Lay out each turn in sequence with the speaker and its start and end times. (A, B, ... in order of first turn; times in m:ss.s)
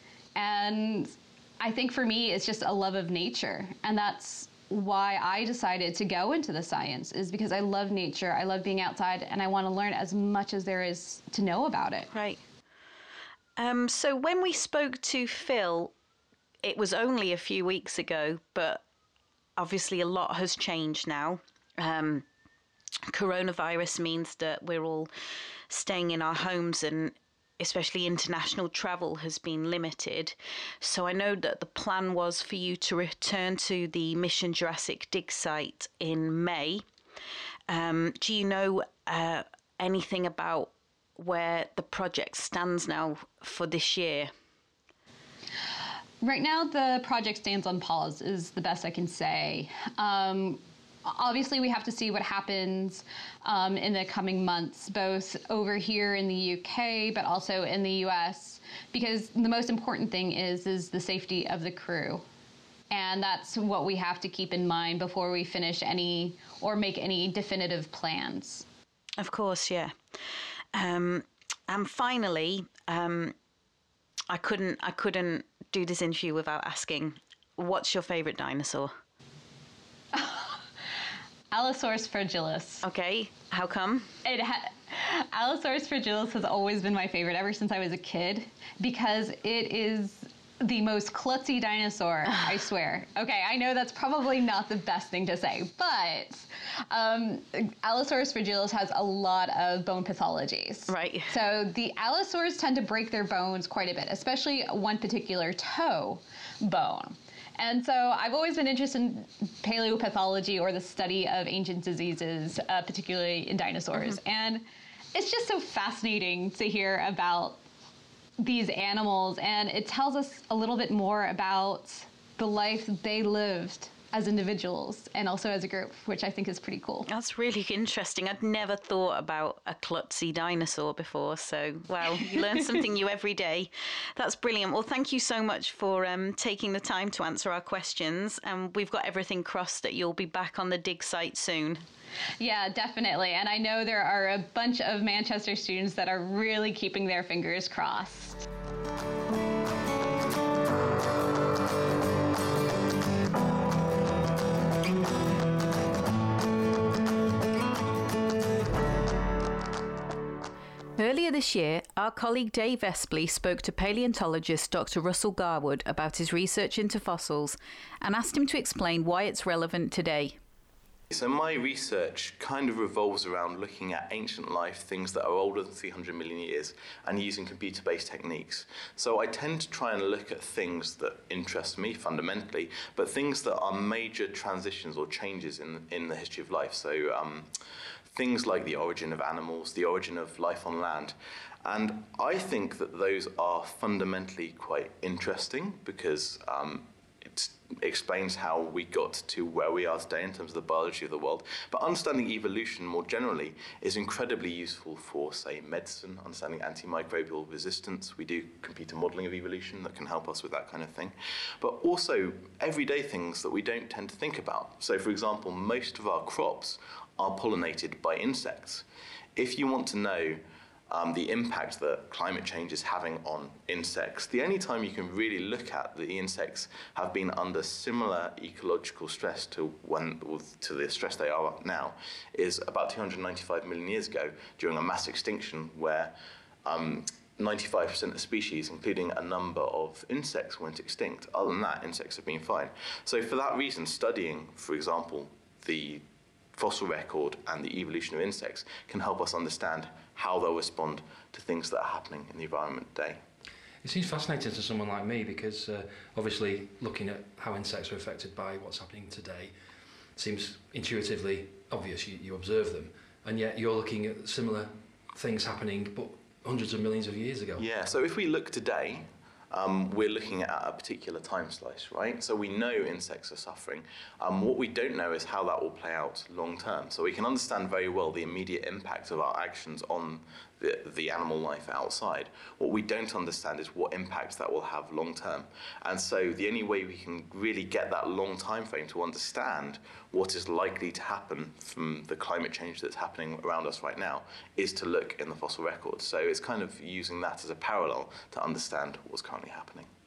0:00.4-0:12.1 A
0:12.1-0:12.4 B
0:13.6-0:15.9 B
0:16.6-0:18.8 B
0:19.6-0:22.3 B
0:23.1-0:25.1 B
0:25.7-0:36.8 B
0:37.7-0:44.3 B
0:46.2-1:02.2 A
1:02.9-1:08.7 A
1:09.2-1:10.0 B
1:10.7-1:13.4 B
1:14.3-1:18.9 B
1:20.1-1:20.6 A
1:21.5-1:22.8 A
1:22.8-1:24.1 B
1:24.2-1:57.6 A
1:40.9-1:41.4 B
1:58.4-2:07.1 A
2:07.0-2:21.8 B
2:22.4-2:28.5 A
2:41.0-2:50.4 B
2:51.1-3:07.5 C
3:08.1-3:38.8 C
3:39.4-3:56.1 C
3:56.7-4:06.0 C
4:06.6-4:13.2 C
4:13.8-4:19.5 D
4:20.2-4:27.7 D
4:27.6-4:59.9 C